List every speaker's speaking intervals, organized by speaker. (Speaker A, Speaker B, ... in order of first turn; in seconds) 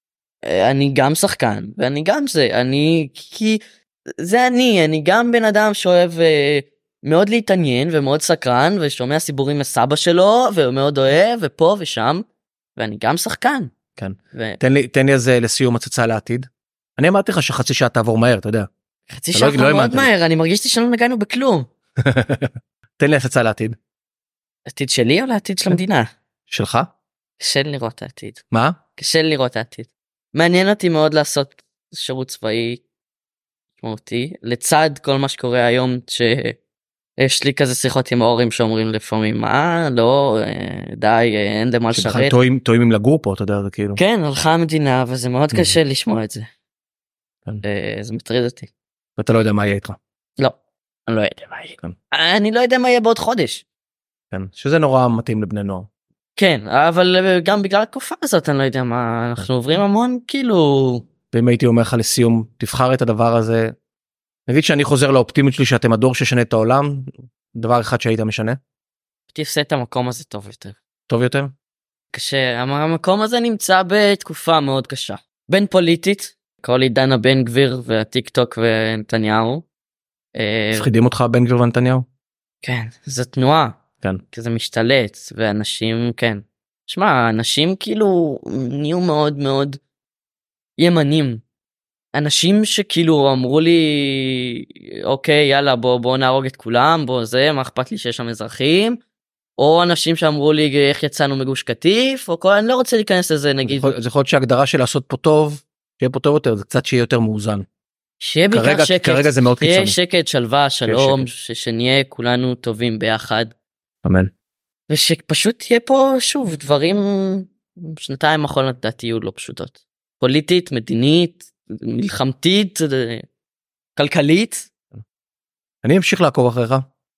Speaker A: 0.4-3.6, 4.2-12.2, 12.8-13.7, 14.3-14.6, 19.1-21.7, 24.7-26.1, 27.4-28.4, 29.0-32.8, 33.8-36.6, 37.2-42.4, 44.0-46.5, 47.6-48.7, 50.4-53.6, 56.4-61.0, 69.3-70.8, 72.1-79.6, 80.3-80.9, 82.6-83.8, 84.3-89.8, 90.8-91.4, 92.1-99.0, 99.6-103.9, 108.2-113.5, 114.9-123.2, 124.0-124.7
Speaker B: 14.0-18.7, 19.3-20.1, 22.0-23.8, 26.5-26.9, 28.5-28.8, 41.9-44.0, 49.2-50.0, 54.3-55.9, 61.3-63.7, 64.5-68.6, 71.1-71.5, 80.7-82.0, 103.7-107.6, 108.5-110.0, 110.8-111.3, 114.0-114.3, 125.8-126.8